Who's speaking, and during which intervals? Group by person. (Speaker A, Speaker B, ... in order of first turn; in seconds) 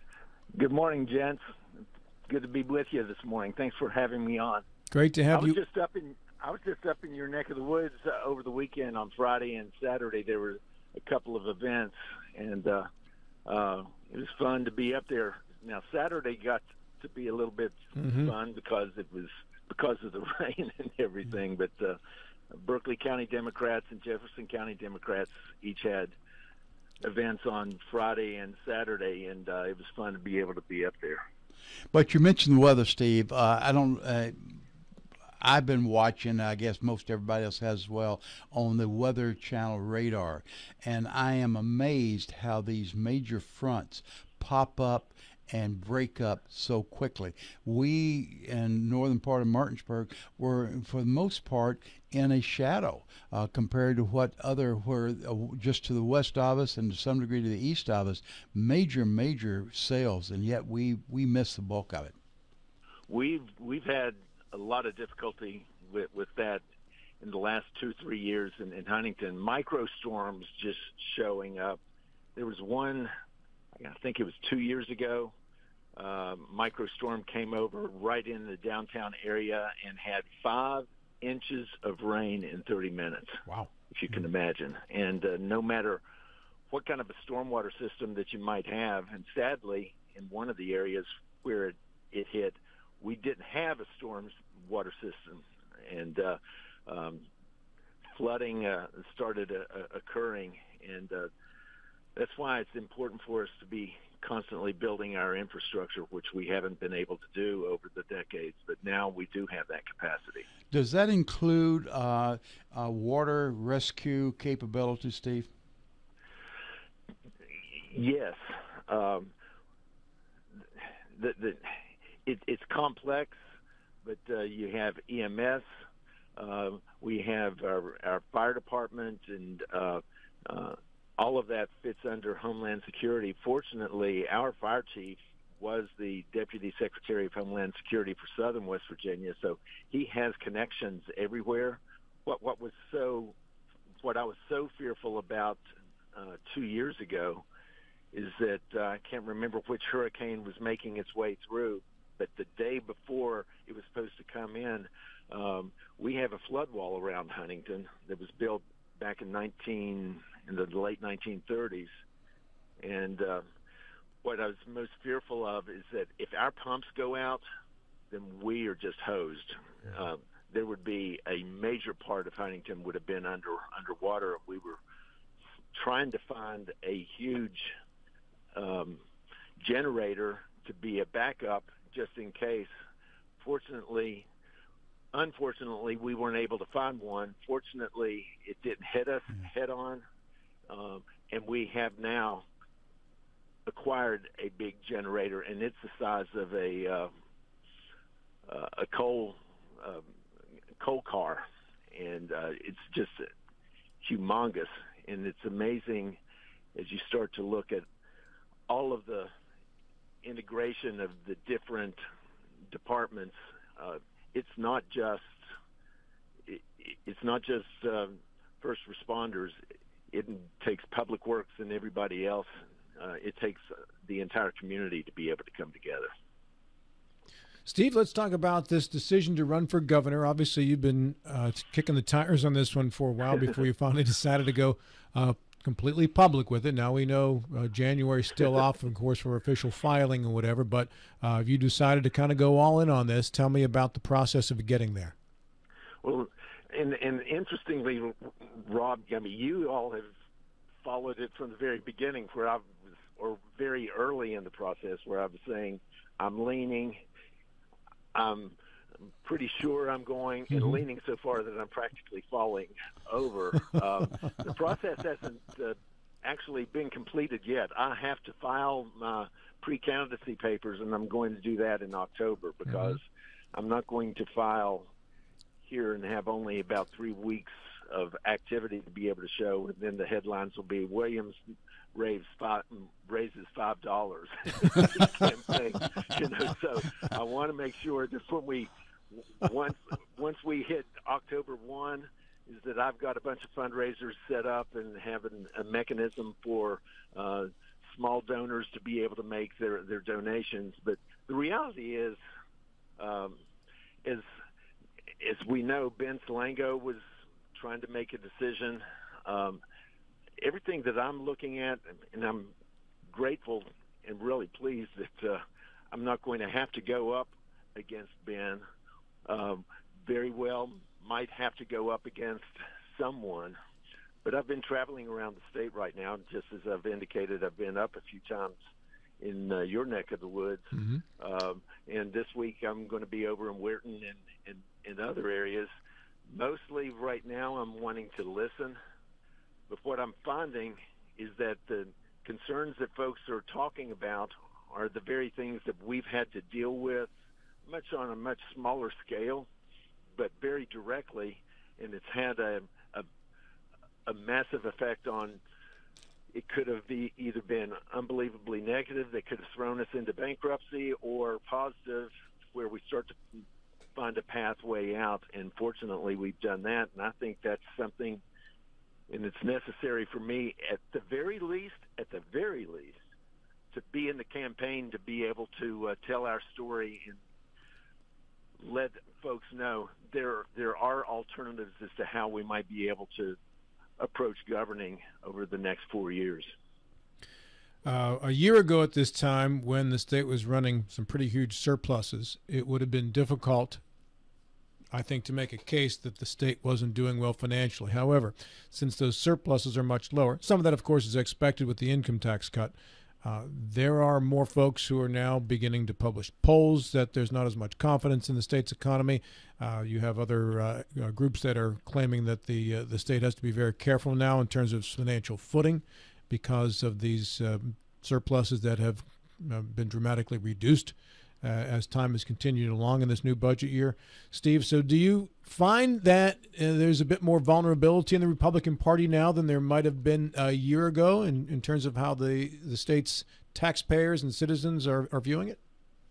Speaker A: 0.5-1.4, 2.3-4.6, 5.3-12.9, 13.5-22.0, 22.5-26.1, 27.0-31.2, 63.1-66.6, 67.2-71.8, 72.3-73.1, 73.8-75.3, 75.9-86.0, 86.7-97.2, 98.1-101.3, 102.2-110.5, 117.7-119.3, 120.6-123.4, 124.0-125.7, 126.3-143.3, 144.0-145.6, 146.1-147.4, 148.1-161.9, 162.8-163.4, 164.2-167.4, 168.1-174.8, 175.7-177.7, 178.5-179.0, 179.6-182.7, 183.4-184.3, 185.1-190.0, 190.7-192.5, 193.7-197.1, 198.5-200.1, 200.8-203.3, 204.0-206.2, 206.8-207.8, 208.7-209.3, 210.2-212.0, 212.7-215.5, 216.5-219.6, 220.1-226.1, 246.0-250.1, 250.8-257.0, 258.1-258.6, 259.2-274.9, 275.6-281.4, 281.9-302.2, 303.0-303.4, 305.2-307.0, 307.5-309.6, 310.4-312.5, 313.1-318.6, 319.2-323.6, 324.2-328.6, 329.2-335.7, 336.3-338.8, 339.7-347.1, 347.6-349.5, 350.1-353.1, 354.1-355.4, 356.3-363.4, 363.9-368.2, 369.1-373.0, 373.7-377.2, 378.6-383.4, 384.0-386.5
Speaker B: 4.9-5.6, 18.0-18.3, 227.7-245.2, 260.5-260.8, 272.7-273.0, 330.7-331.0, 387.8-393.8, 394.9-435.6
Speaker C: 31.9-34.6, 35.4-62.2, 110.7-115.5